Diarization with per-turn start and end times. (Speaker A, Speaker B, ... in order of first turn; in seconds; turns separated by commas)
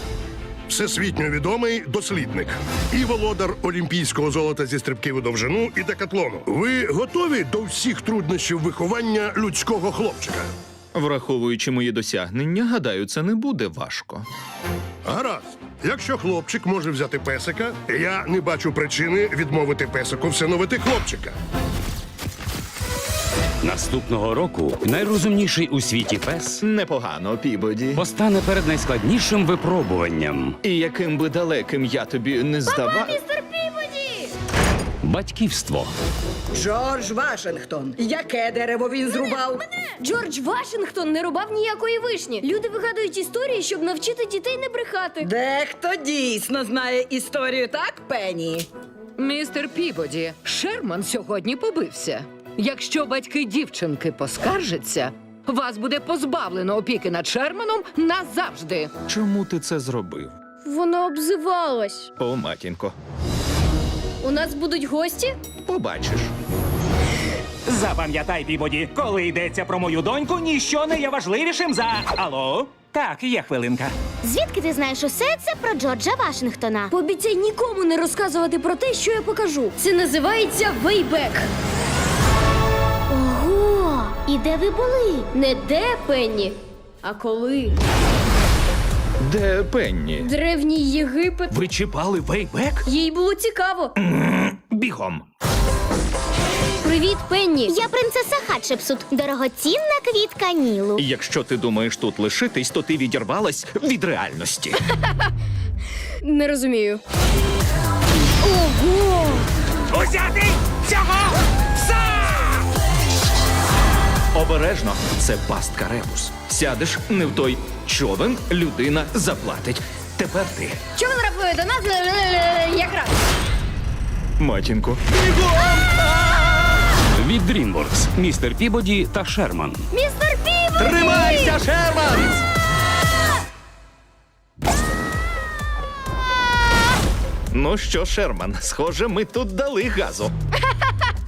Speaker A: 0.7-10.5, Speaker B: 10.9-14.3, Speaker A: 15.1-21.4, Speaker C: 23.6-26.6, Speaker B: 26.6-28.1, Speaker C: 27.9-30.6, Speaker B: 30.6-33.2, Speaker D: 32.7-34.3, Speaker C: 35.0-35.9, Speaker E: 36.5-39.6, Speaker D: 39.1-45.3, Speaker E: 45.3-48.7, Speaker F: 49.2-58.9, Speaker B: 59.1-60.4, Speaker D: 60.6-62.1, Speaker B: 62.2-63.0, Speaker D: 64.2-65.3, Speaker B: 65.7-66.3, Speaker G: 67.7-73.9, Speaker H: 74.2-76.9, Speaker D: 76.9-81.5, Speaker H: 83.1-85.3, Speaker D: 85.3-87.8, Speaker B: 89.2-90.3, Speaker D: 90.2-91.6, Speaker B: 91.5-92.9, Speaker D: 92.8-94.0, Speaker B: 94.0-95.2, Speaker D: 96.8-97.8, Speaker H: 97.7-101.0, Speaker B: 101.0-104.8, Speaker D: 106.2-107.0, Speaker D: 108.4-109.5, Speaker G: 109.9-111.0, Speaker B: 114.3-120.8, Speaker D: 121.0-123.2, Speaker B: 124.4-126.9, Speaker C: 127.1-129.8, Speaker D: 129.9-131.6, Speaker B: 130.8-132.4, Speaker B: 137.5-140.3